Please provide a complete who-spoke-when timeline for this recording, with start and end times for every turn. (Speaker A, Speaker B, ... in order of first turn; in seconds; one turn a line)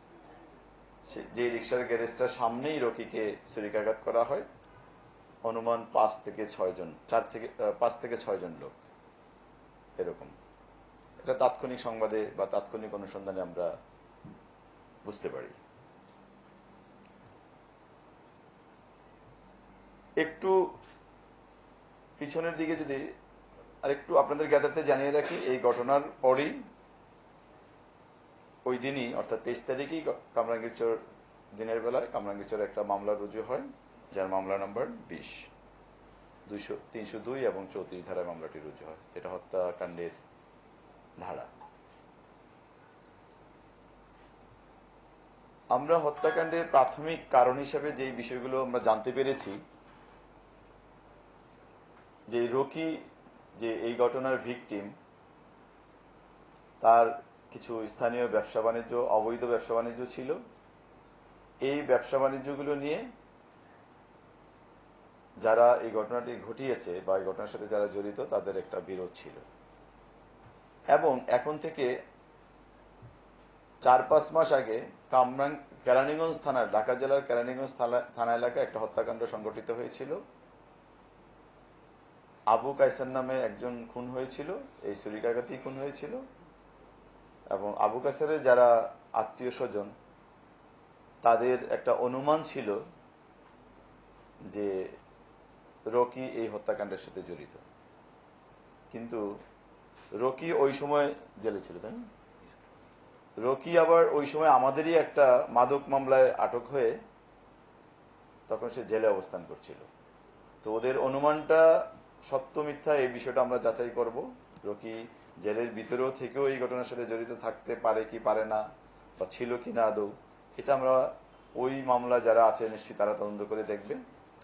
Speaker A: 1.1-4.5
Speaker A: 5.4-8.8
Speaker A: 10.0-10.3
Speaker A: 11.2-13.7
Speaker A: 15.1-15.6
Speaker A: 20.2-20.8
Speaker A: 22.2-23.1
Speaker A: 23.8-26.6
Speaker A: 28.6-31.0
Speaker A: 31.6-35.5
Speaker A: 36.5-40.1
Speaker A: 41.2-41.5
Speaker A: 45.7-49.6
Speaker A: 52.3-53.0
Speaker A: 53.6-54.9
Speaker A: 56.8-60.4
Speaker A: 61.6-63.0
Speaker A: 65.4-69.4
Speaker A: 70.9-71.9
Speaker A: 73.8-80.2
Speaker A: 82.5-86.2
Speaker A: 87.5-89.9
Speaker A: 91.2-92.8
Speaker A: 95.9-97.6
Speaker A: 98.9-99.2
Speaker A: 100.2-102.1
Speaker A: 103.4-107.0
Speaker A: 108.5-109.9
Speaker A: 110.6-118.6
Speaker A: 119.2-121.1
Speaker A: 121.6-124.0